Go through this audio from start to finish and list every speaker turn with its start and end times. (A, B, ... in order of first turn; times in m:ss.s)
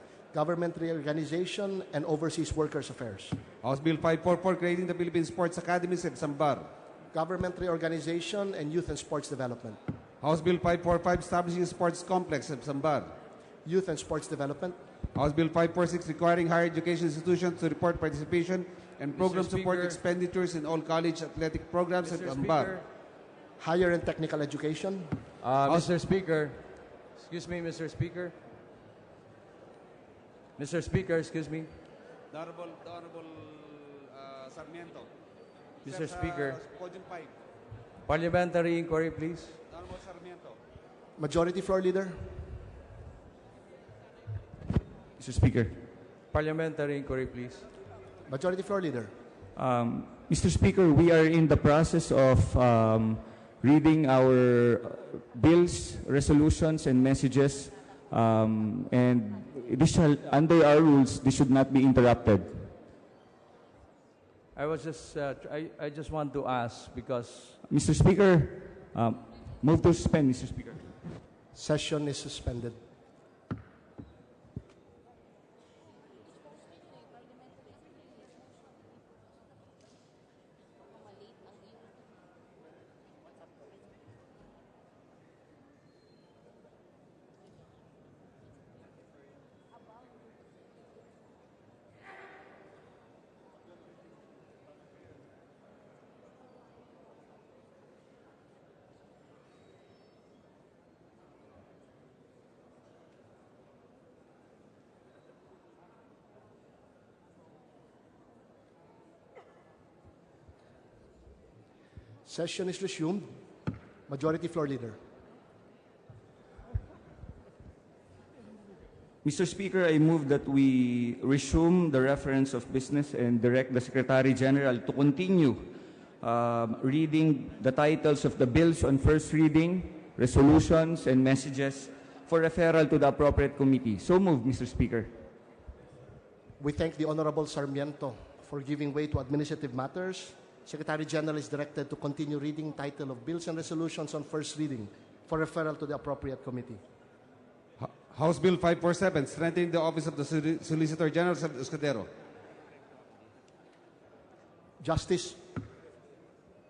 0:00.3-0:03.4 A
0:03.6-0:06.7 B
0:07.1-0:09.8 A
0:10.2-0:13.1 B
0:13.6-0:14.8 A
0:15.1-0:22.7 B
0:19.2-0:20.0 C
0:22.0-0:22.8 C
0:23.6-0:25.1 A
0:25.4-0:26.6 C
0:27.2-0:28.4 C
0:30.6-0:31.7 C
0:32.3-0:35.1 B
0:35.8-0:36.6 C
0:35.8-0:37.3 B
0:38.0-0:39.6 C
0:39.7-0:40.6 B
0:41.2-0:42.4 A
0:45.2-0:45.8 D
0:46.3-0:47.6 C
0:48.3-0:49.1 A
0:49.5-1:02.7 D
1:04.5-1:07.6 C
1:07.7-1:10.9 D
1:11.5-1:12.8 A
1:52.2-1:53.2 A
1:54.1-1:55.0 A
1:59.2-2:15.1 D
2:16.6-2:26.8 A
2:27.8-2:32.1 B
2:34.8-2:35.4 A